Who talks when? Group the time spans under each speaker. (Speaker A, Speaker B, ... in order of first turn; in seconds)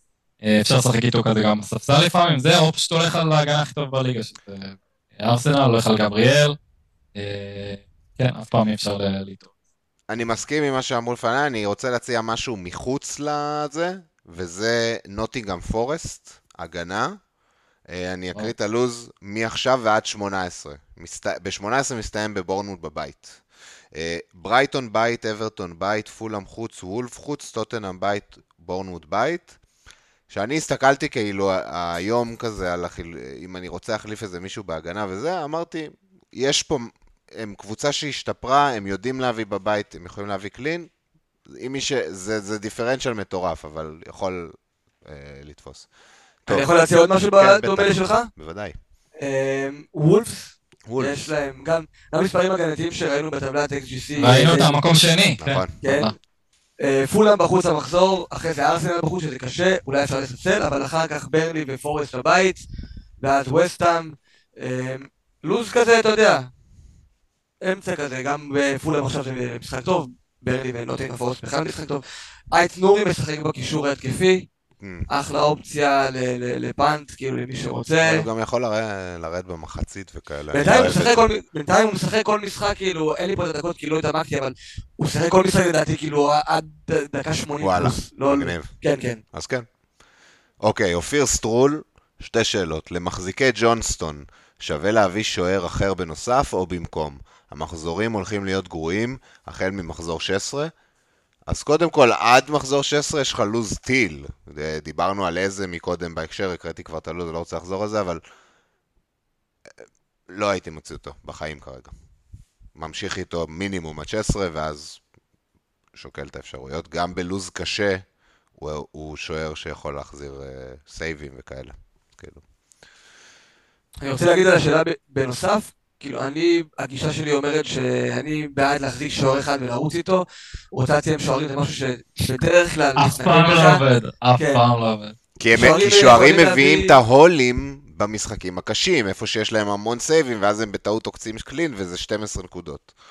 Speaker A: 0.4-6.6, 7.1-9.5, 54.2-56.1, 132.9-135.1
Speaker B: 10.1-17.2, 17.9-23.4, 23.9-29.6, 30.3-40.9, 41.5-45.9, 46.4-46.7, 47.3-48.7, 50.9-51.3, 55.4-55.7, 74.8-75.1, 78.0-81.2, 87.6-88.7, 89.3-89.7, 90.6-100.7, 101.5-108.2, 110.3-111.9, 112.7-115.0, 115.9-118.0, 118.6-122.4, 135.4-142.9
Speaker C: 46.5-48.3, 49.2-54.7, 55.8-56.1, 56.8-62.7, 63.2-66.5, 67.6-74.5, 75.1-78.2, 80.5-89.2, 124.0-133.8, 134.3-134.6, 135.5-136.9